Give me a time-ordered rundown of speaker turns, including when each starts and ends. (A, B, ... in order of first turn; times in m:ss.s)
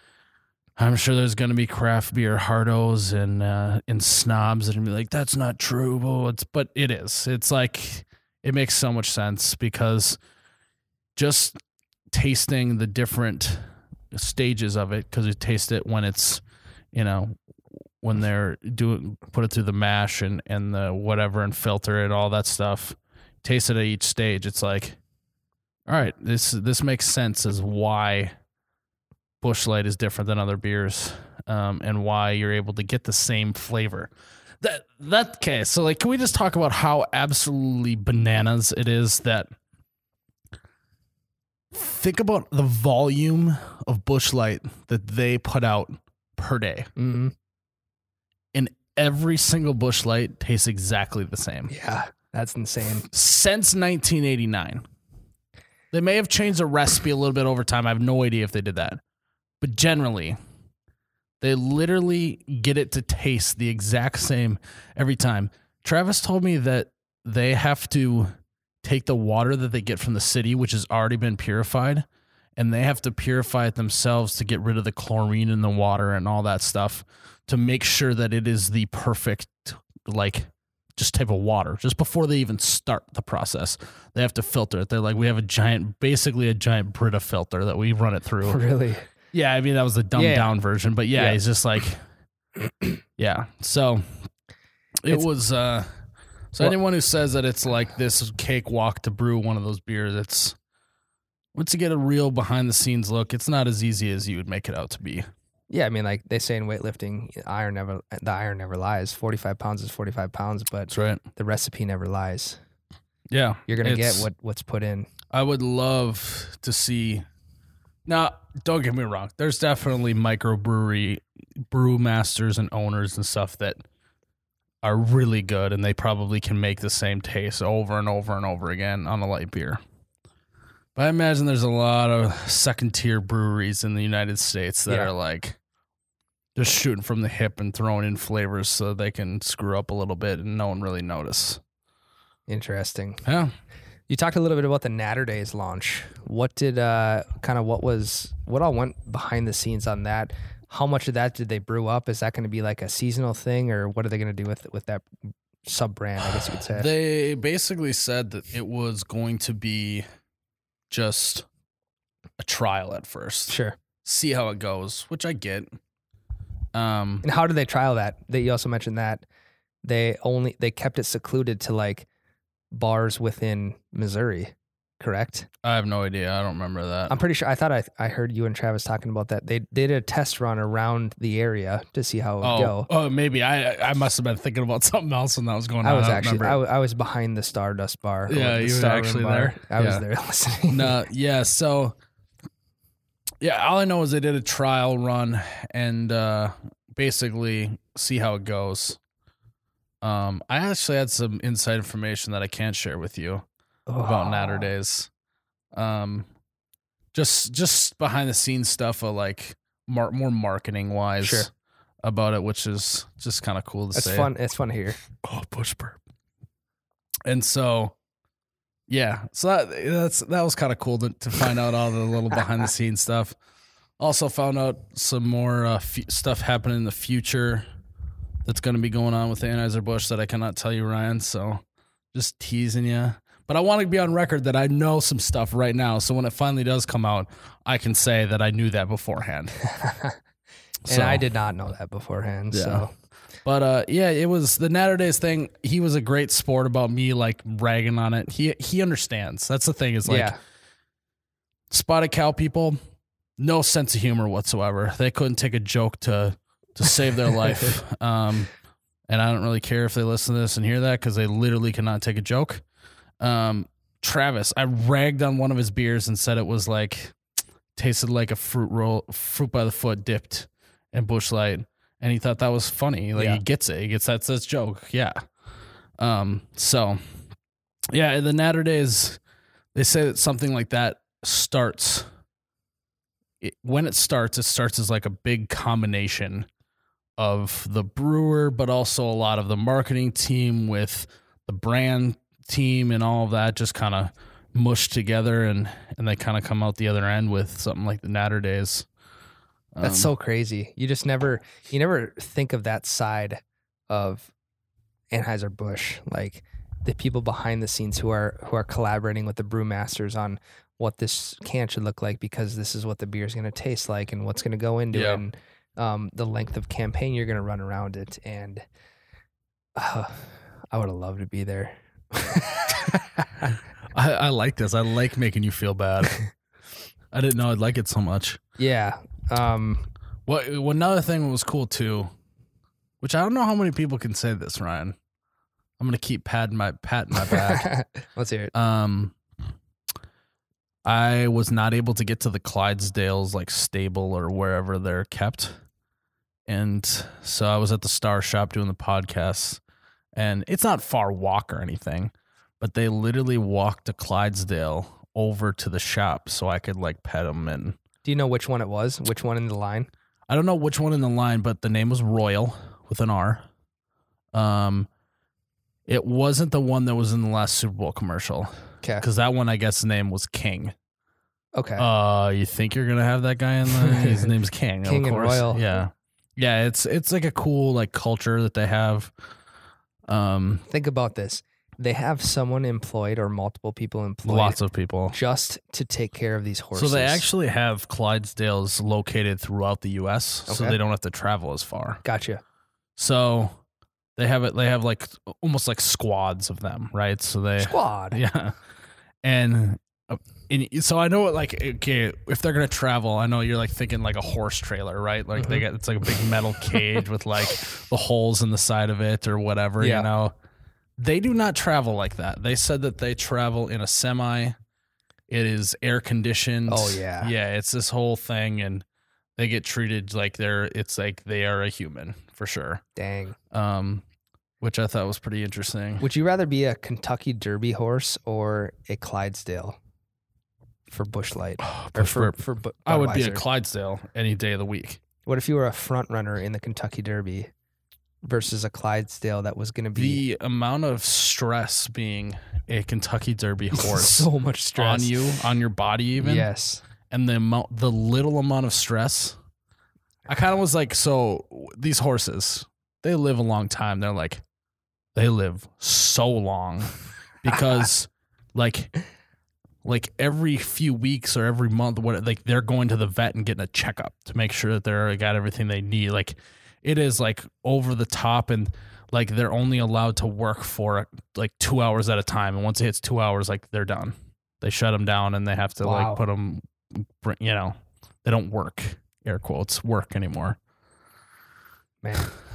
0:00.8-0:10.2 A
0:11.2-0:11.6 A
0:12.1-0:16.4 A
0:16.9-0:17.4 A
0:18.0-0:25.0 A
0:25.9-0:28.3 A
0:29.4-0:39.5 A
0:41.7-0:46.9 A
0:47.0-0:47.3 B
0:48.5-0:51.7 A
0:51.7-0:53.0 B
0:53.1-0:54.8 A
0:55.9-0:59.0 A
0:59.6-1:00.4 A
1:01.4-1:12.0 A
1:12.6-1:28.6 A
1:28.4-1:29.1 B
1:29.3-1:32.0 A
1:30.2-1:30.5 B
1:31.1-1:31.4 B
1:32.6-1:33.0 B
1:33.2-1:34.3 A
1:35.0-1:35.9 A
1:36.5-1:40.6 A
1:41.5-1:45.3 A
1:45.7-1:52.6 B
1:50.9-1:51.2 A
1:53.3-1:54.3 A
1:53.7-1:55.1 B
1:55.3-1:57.2 A
1:58.0-2:03.8 A
2:04.8-2:09.8 A
2:10.9-2:15.6 A
2:16.5-2:21.6 A
2:22.5-2:23.2 B
2:23.2-2:23.5 A
2:24.1-2:36.9 B
2:36.6-2:40.0 A
2:40.9-2:41.5 A
2:42.4-2:45.8 A
2:43.5-2:43.8 B
2:46.7-2:47.2 A
2:47.2-2:49.2 B
2:49.8-2:52.1 B
2:52.7-2:55.5 B
2:55.6-2:57.2 A
2:57.1-3:02.9 B
3:02.4-3:06.6 A
3:05.8-3:10.9 B
3:08.3-3:10.0 A
3:10.6-3:12.0 A
3:13.4-3:19.0 A
3:20.0-3:23.4 A
3:23.9-3:24.7 B
3:24.0-3:25.1 A
3:25.7-3:26.3 A
3:27.1-3:31.5 A
3:31.2-3:31.5 B
3:32.0-3:34.3 A
3:33.9-3:35.0 B
3:35.1-3:36.0 A
3:37.2-3:37.9 A
3:38.9-3:43.4 A
3:44.0-3:47.6 A
3:48.4-3:51.6 A
3:52.1-3:59.6 A
3:59.6-4:00.2 B
4:00.8-4:01.2 A
4:00.9-4:02.9 B
4:02.5-4:02.8 A
4:03.4-4:10.3 A
4:10.0-4:10.4 B
4:11.7-4:12.8 A
4:13.4-4:18.5 A
4:19.1-4:22.6 A
4:23.2-4:27.2 A
4:27.7-4:35.2 A
4:33.1-4:33.4 B
4:36.0-4:37.2 A
4:37.9-4:39.2 A
4:39.7-4:42.1 A
4:43.4-4:46.5 A
4:47.2-4:58.9 A
4:59.8-5:00.1 A
4:59.8-5:04.3 B
5:05.1-5:18.6 B
5:14.9-5:15.2 A
5:19.7-5:23.5 B
5:23.9-5:26.2 A
5:27.1-5:28.4 A
5:28.6-5:29.9 B
5:30.3-5:32.1 A
5:33.0-5:35.0 A
5:35.8-5:37.7 A
5:37.3-5:38.5 B
5:38.5-5:39.1 A
5:40.8-5:45.6 A
5:46.5-5:49.6 A
5:50.1-5:57.8 A
5:58.0-5:59.9 B
6:00.3-6:03.4 A
6:04.3-6:04.9 A
6:05.9-6:10.7 A
6:11.5-6:11.8 B
6:11.8-6:19.1 A
6:13.8-6:14.3 B
6:14.8-6:15.8 B
6:20.1-6:20.6 A
6:20.7-6:27.2 B
6:24.2-6:25.2 A
6:26.7-6:32.0 A
6:30.5-6:30.8 B
6:32.0-6:32.4 B
6:33.0-6:33.6 A
6:34.2-6:38.6 A
6:37.6-6:38.2 B
6:39.2-6:50.3 A
6:45.4-6:45.6 B
6:49.8-6:50.1 B
6:51.0-6:54.6 A
6:55.3-6:58.8 A
6:56.7-6:57.3 B
6:59.4-7:02.8 A
7:03.0-7:03.4 B
7:03.5-7:04.0 A
7:04.6-7:06.0 A
7:06.0-7:09.8 B
7:10.9-7:13.4 B
7:11.6-7:15.0 A
7:15.2-7:17.5 B
7:18.2-7:20.2 B
7:19.9-7:26.5 A
7:23.7-7:25.4 B
7:26.2-7:26.8 B
7:27.1-7:29.4 A
7:30.3-7:34.4 A
7:35.1-7:38.9 A
7:37.5-7:37.8 B
7:39.8-8:00.6 A
7:55.8-7:56.2 B
8:02.0-8:02.3 B